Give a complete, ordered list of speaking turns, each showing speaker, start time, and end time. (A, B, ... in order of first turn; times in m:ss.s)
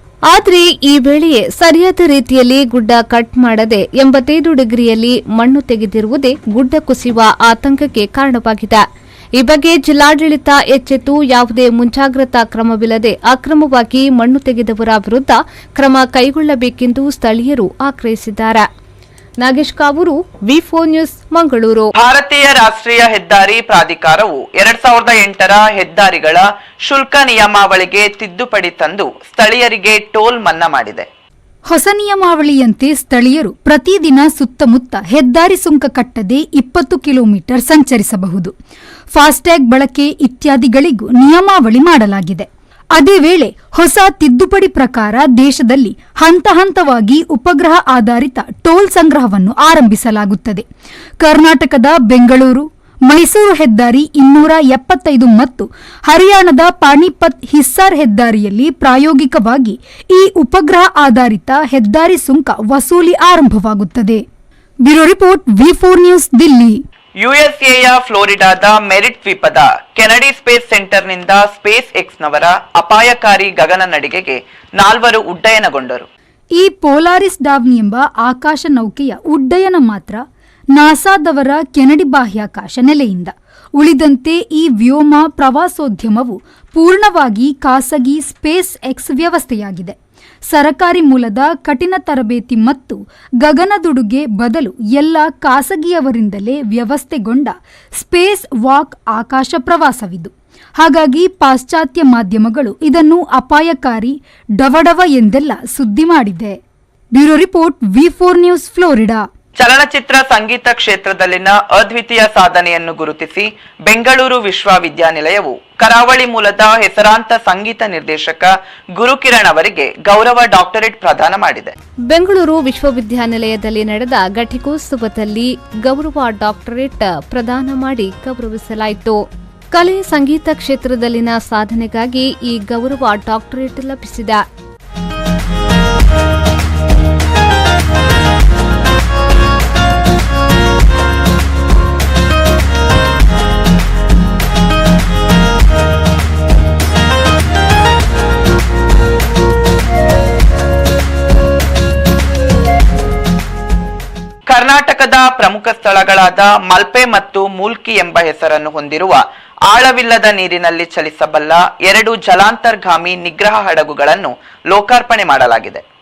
0:00.3-0:08.8 A
0:09.4-0:18.6 A
0:19.4-0:21.9 A
0:22.0-0:31.1 B
0:31.7-0:38.5 C
0:39.1-0:50.6 C
0:51.2-1:04.2 C
1:04.8-1:06.8 C
1:07.2-1:16.1 B
1:16.6-1:20.2 C
1:20.7-1:30.0 C
1:30.5-1:46.6 C
1:47.1-1:49.3 C
1:49.6-2:01.7 B
2:02.1-2:09.2 A
2:09.7-2:14.4 A
2:34.5-2:45.8 B